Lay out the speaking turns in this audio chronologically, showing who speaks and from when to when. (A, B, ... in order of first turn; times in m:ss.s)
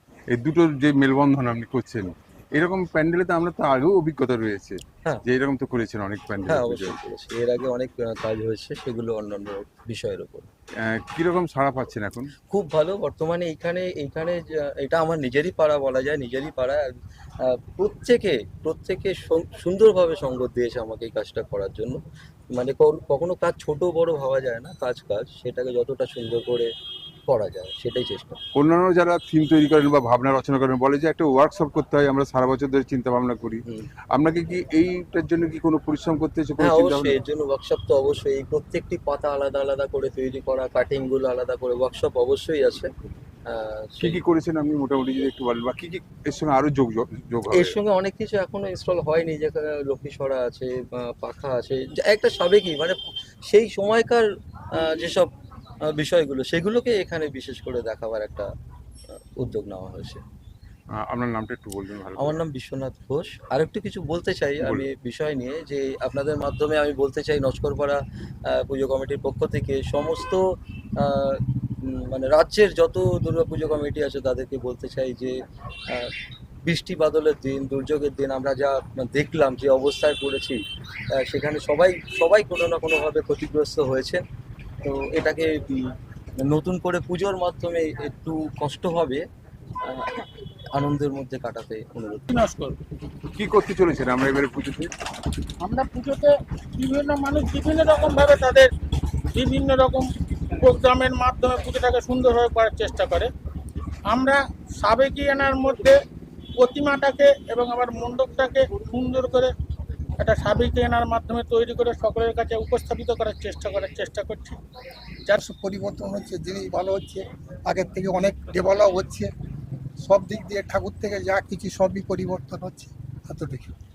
0:00.3-0:07.0 A
0:06.5-0:10.5 B
0:10.8-0:12.3 A
0:12.5-0:16.9 B
0:17.4-0:22.0 B
0:22.6-0:26.7 B
0:27.3-0:28.4 B
0:28.6-0:33.6 A
0:34.1-0:37.2 A
0:36.6-0:42.9 B
0:43.5-0:44.2 B
0:44.0-0:47.8 A
0:47.5-0:55.3 B
0:55.9-0:58.5 B
0:59.4-1:00.2 B
1:00.9-1:02.4 A
1:02.2-1:10.4 B
1:04.6-1:04.9 A
1:11.0-1:15.3 B
1:16.6-1:20.6 B
1:21.2-1:24.2 B
1:24.8-1:25.9 B
1:26.4-1:29.2 B
1:29.9-1:32.2 B
1:32.3-1:32.8 C
1:33.3-1:34.9 A
1:35.6-1:38.7 C
1:39.3-1:40.1 C
1:40.6-1:43.3 C
1:44.1-1:46.0 C
1:46.6-1:49.5 C
1:50.2-1:54.6 C
1:55.3-1:59.3 D
2:00.1-2:03.7 D